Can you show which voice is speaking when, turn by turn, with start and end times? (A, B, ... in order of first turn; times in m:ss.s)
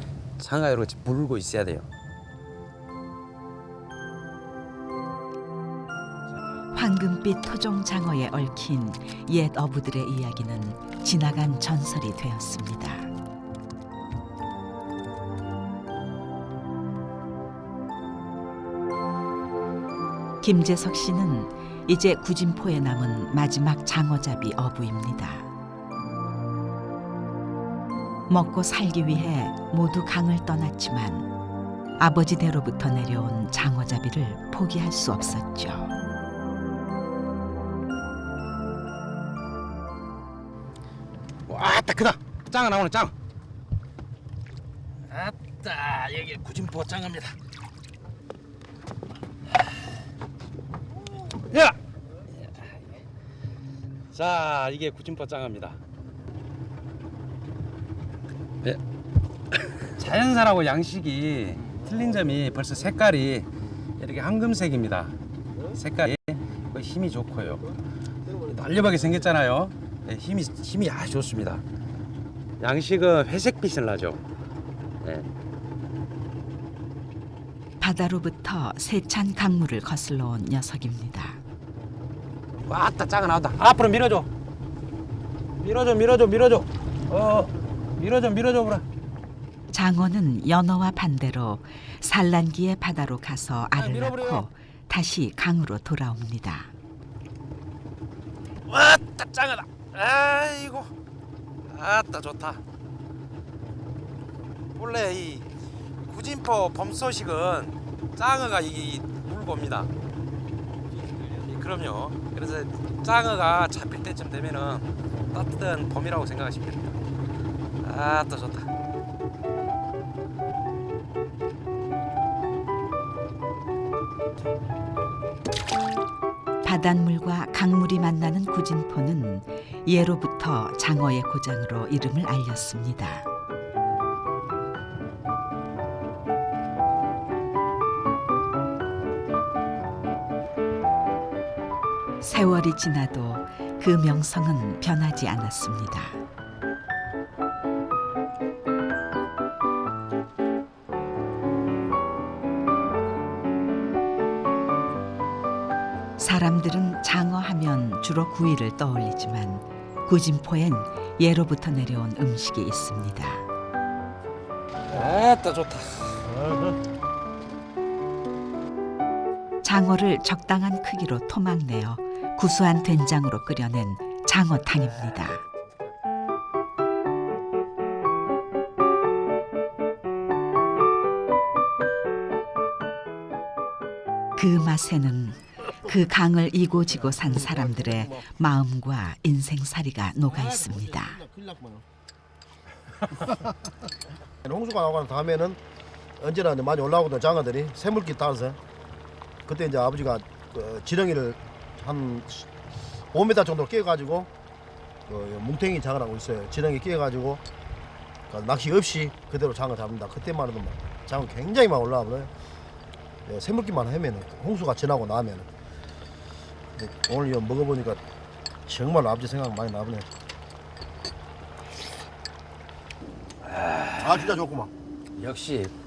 0:00.4-0:01.9 A
0:06.7-0:13.1 B
0:20.4-0:25.5 B
0:28.3-0:31.3 B
0:32.0-0:35.9 B
0:41.5-0:43.1 A
0:45.1-0:47.4 A
0:51.3-0:51.8 A
0:52.3-0:52.8 A
0:54.1-0:55.8 A
0:59.5-1:05.1 A
1:05.7-1:07.7 A
1:08.3-1:11.6 A
1:12.6-1:14.2 A
1:15.0-1:15.3 A
1:17.8-1:21.4 B
1:22.6-1:24.3 A
1:25.6-1:28.8 A
1:29.7-1:36.7 B
1:33.7-1:34.5 A
1:38.7-1:40.9 A
1:41.7-1:42.6 A
1:44.8-1:45.5 A
1:46.1-1:49.9 A
1:51.2-1:57.0 A
1:57.8-1:58.7 A
2:06.6-2:13.3 B
2:22.2-2:26.2 B
2:36.2-2:43.5 B
2:44.9-2:46.4 A
2:49.6-2:55.4 B
3:04.4-3:11.2 B
3:07.1-3:08.0 C
3:10.6-3:11.8 C
3:14.4-3:15.6 C
3:16.2-3:18.6 C
3:19.5-3:22.5 C
3:23.1-3:24.3 C
3:25.1-3:27.4 C
3:28.3-3:32.3 C
3:33.3-3:35.5 C
3:36.8-3:38.0 C
3:38.7-3:40.1 C
3:43.4-3:44.4 A
3:44.0-3:44.7 C
3:45.2-3:45.7 A